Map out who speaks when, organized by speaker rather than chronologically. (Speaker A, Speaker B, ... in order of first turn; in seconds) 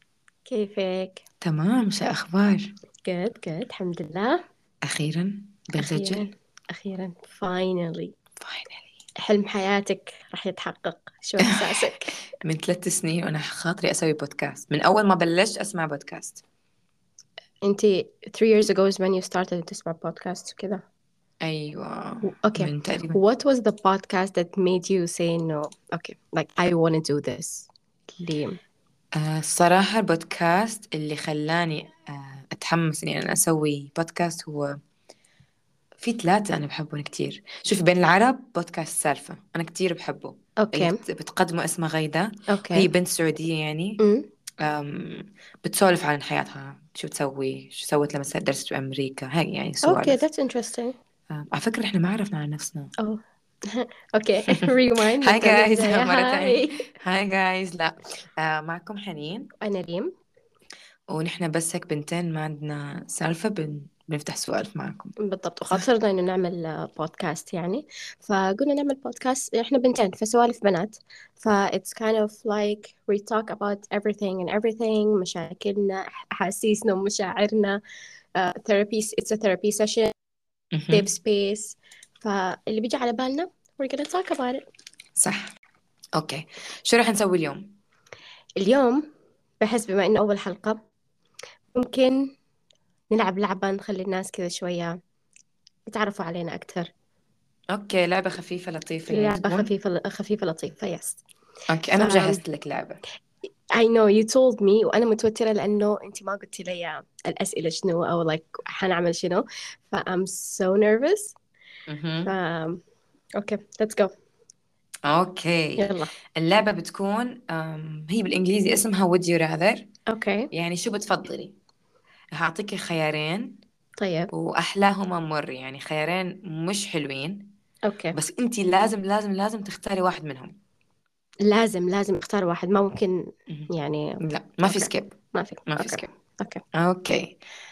Speaker A: 0.5-1.2, 3.0-4.4, 5.8-8.1, 9.2-12.2, 17.6-20.8, 22.3-28.6, 40.6-41.0, 42.5-42.9, 44.0-44.2, 49.8-51.0, 53.0-56.8, 59.6-60.1, 65.2-77.8, 78.4-80.1, 80.9-84.7, 88.6-89.0, 89.6-90.8, 91.7-92.2, 93.1-95.0, 95.9-96.9, 99.1-101.2, 102.0-102.4, 103.8-111.3, 112.2-112.8, 113.4-114.1, 115.8-116.1, 120.1-120.5, 124.0-124.3, 127.9-128.2, 131.4-133.2, 133.7-136.6
Speaker B: 1.4-2.6, 4.9-6.3, 8.4-8.9, 11.4-11.9, 12.4-16.4, 21.4-23.2, 29.2-34.7, 36.0-44.0, 44.6-50.2, 51.3-52.9, 55.2-59.5, 61.1-65.1, 80.7-81.1, 85.2-85.5, 86.2-87.7, 97.7-99.7, 101.7-103.0, 111.9-112.3, 115.1-119.8, 120.5-121.5, 122.4-123.5, 124.3-127.5, 128.2-130.6, 134.2-135.2, 135.7-136.1, 136.8-137.4